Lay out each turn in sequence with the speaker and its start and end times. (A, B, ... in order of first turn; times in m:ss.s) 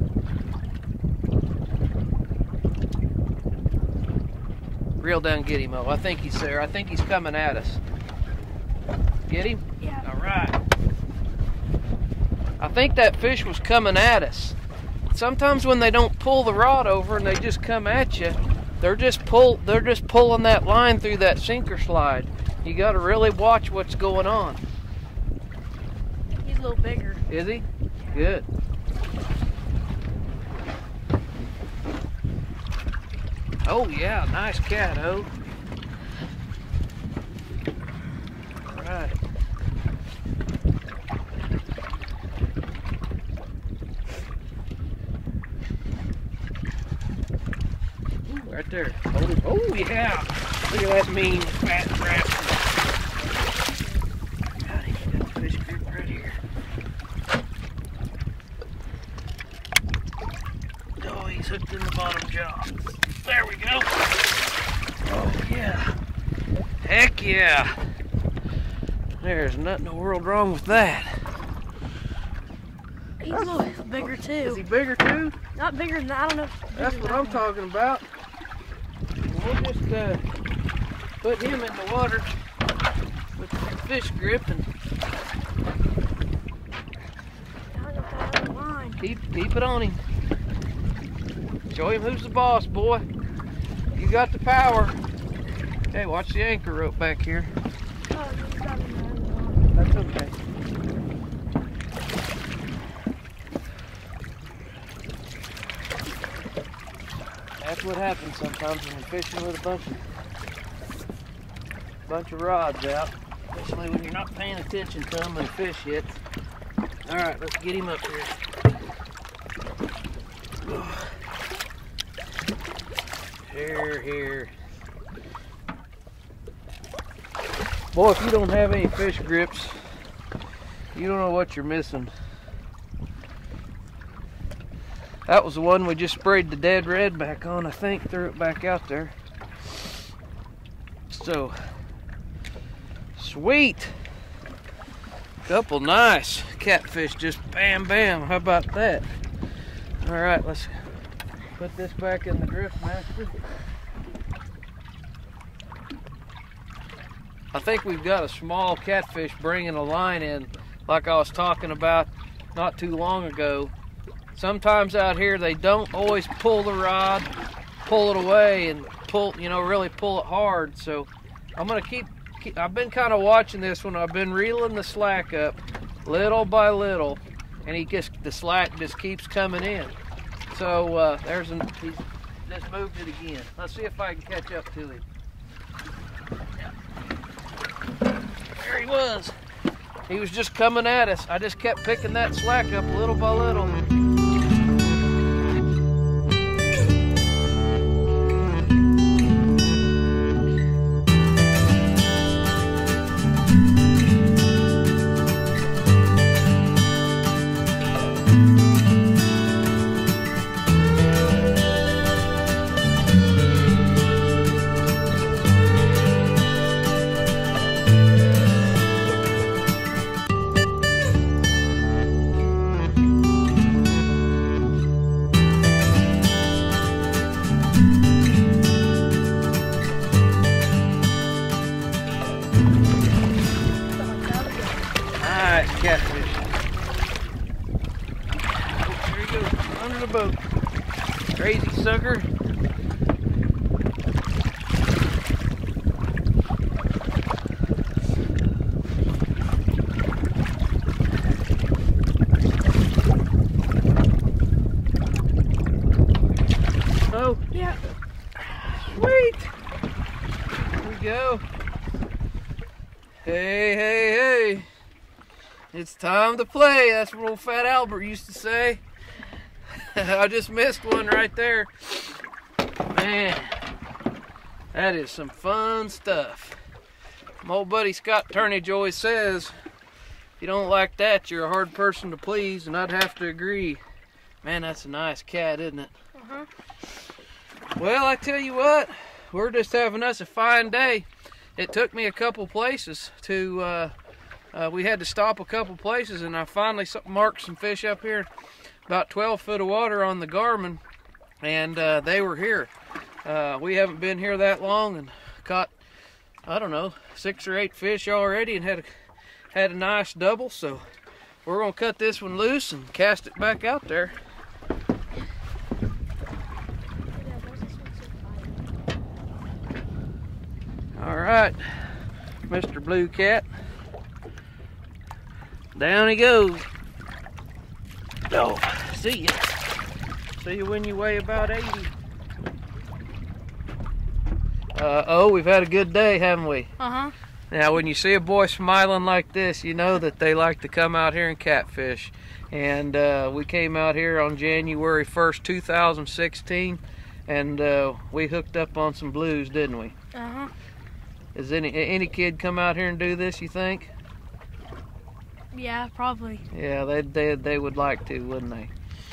0:05.0-0:07.8 A
0:09.2-0:10.6 A
0:12.6-0:14.6 A
0:15.1-0:24.6 A
0:26.4-0:27.2 B
0:27.3-0:28.5 A
0:33.6-0:35.3 A
0:38.6-0:39.2 A
0:48.2-0:52.7 A
0:54.6-0:56.4 A
1:01.0-1:04.0 A
1:05.0-1:06.0 A
1:06.8-1:07.7 A
1:09.2-1:11.2 A
1:13.2-1:14.6 B
1:14.4-1:15.4 A
1:15.5-1:17.4 B
1:16.7-1:18.0 A
1:19.2-1:20.2 A
1:21.2-1:22.3 A
1:23.4-1:24.7 A
1:27.7-1:29.0 B
1:29.0-1:30.0 A
1:31.7-1:33.0 A
1:33.9-1:35.0 A
1:35.9-1:37.5 A
1:38.1-1:39.7 B
1:39.7-1:40.3 A
1:47.6-1:50.0 A
1:52.0-1:56.2 A
1:57.0-1:58.4 A
2:00.6-2:01.2 A
2:03.4-2:04.5 A
2:07.9-2:09.8 A
2:10.9-2:12.1 A
2:15.3-2:19.1 A
2:21.1-2:21.6 A
2:23.1-2:23.9 A
2:25.4-2:29.0 A
2:30.0-2:30.7 A
2:31.6-2:33.4 A
2:37.5-2:43.7 A
2:44.3-2:47.3 A
2:47.8-2:59.9 A
3:00.5-3:05.0 A
3:08.5-3:09.3 A
3:10.1-3:13.8 A
3:53.9-3:54.9 B
3:55.2-3:56.5 A
3:58.8-4:00.4 A
4:01.3-4:02.3 A
4:17.1-4:17.8 A
4:18.4-4:19.5 A
4:20.8-4:21.4 A
4:23.2-4:24.7 A
4:25.7-4:28.8 A
4:29.8-4:32.1 A
4:32.9-4:33.5 A
4:34.7-4:36.6 A
4:37.4-4:39.5 A
4:40.4-4:43.8 A
4:44.4-4:45.9 A
4:46.2-4:46.5 B
4:47.8-4:51.0 A
4:51.6-4:53.9 A
4:54.5-4:58.3 A
4:58.9-5:00.8 A
5:01.4-5:02.7 A
5:03.2-5:05.7 A
5:06.4-5:08.9 A
5:09.5-5:10.8 A
5:11.4-5:14.1 A
5:17.1-5:18.6 B
5:21.0-5:21.8 A
5:22.5-5:23.4 A
5:25.7-5:26.6 A
5:28.3-5:29.6 A
5:30.4-5:31.9 A
5:34.7-5:36.7 A
5:36.8-5:37.1 B
5:37.5-5:50.0 A
5:50.1-5:50.5 B
5:51.3-5:53.9 A
5:55.5-5:56.4 B
5:56.5-5:58.7 A